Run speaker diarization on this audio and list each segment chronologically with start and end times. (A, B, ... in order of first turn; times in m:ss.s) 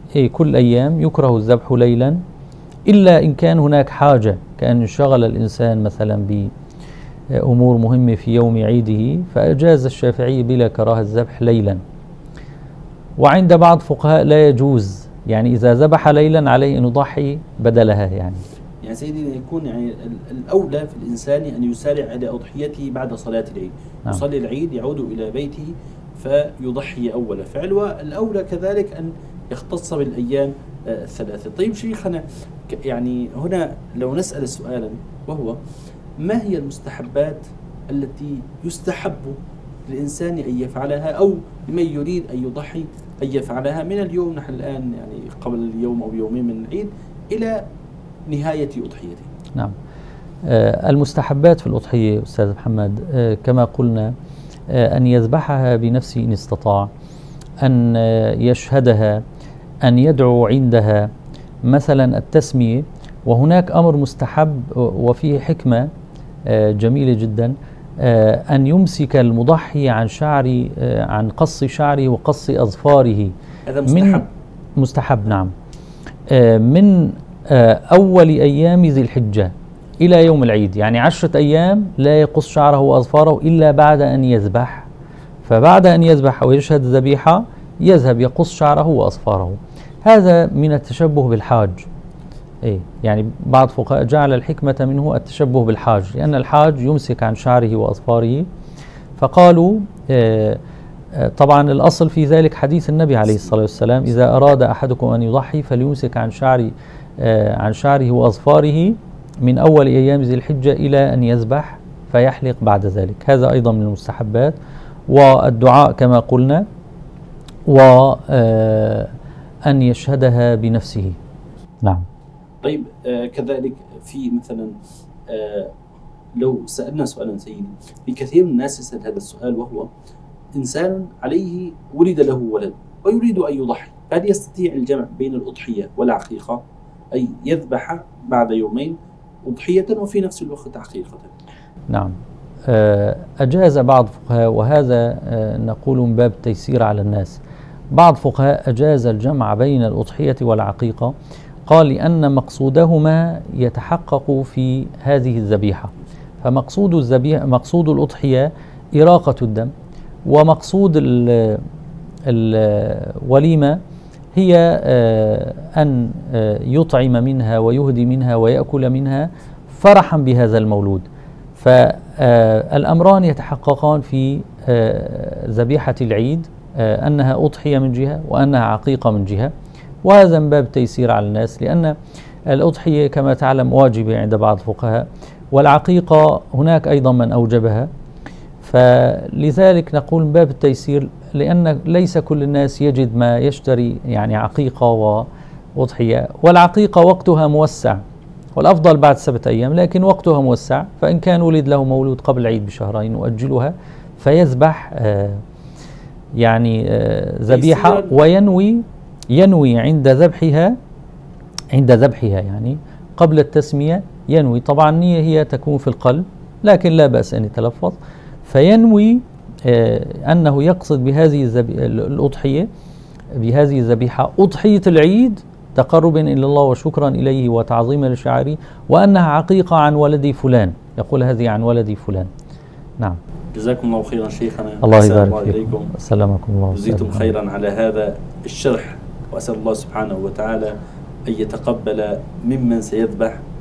0:00.1-0:02.2 A
0:02.9-0:06.5 A
0:07.3-0:11.8 A
0:13.2-0:18.4 A
0:18.8-0:35.6 B
0:36.2-0:47.6 B
0:48.3-0:49.3 B
0:50.4-0:54.1 A
0:54.7-0:56.9 A
0:57.6-0:59.2 A
0:59.8-1:01.1 A
1:01.6-1:05.9 A
1:06.4-1:13.3 A
1:13.7-1:14.3 B
1:13.9-1:14.2 A
1:14.8-1:15.5 A
1:16.3-1:24.9 A
1:25.4-1:31.9 A
1:32.6-1:38.5 A
1:39.2-1:40.6 A
1:41.1-1:54.6 A
1:55.1-1:56.7 A
1:57.6-1:59.1 A
1:59.7-2:01.2 A
2:02.6-2:04.7 B
2:05.3-2:05.8 B
2:06.4-2:09.9 B
2:10.6-2:21.3 B
2:21.9-2:22.2 A
2:22.7-2:27.4 A
2:27.9-2:31.1 A
2:31.7-2:39.7 A
2:40.2-2:41.7 A
2:42.2-2:43.8 A
2:44.3-2:59.5 A
3:00.0-3:07.9 A
3:08.6-3:18.0 A
3:18.5-3:25.4 A
3:26.4-3:30.8 A
3:27.5-3:28.2 B
3:31.7-3:42.7 A
3:43.3-3:52.3 A
3:53.5-3:55.9 B
3:54.8-3:57.3 A
3:56.7-4:00.8 B
4:01.3-4:03.4 B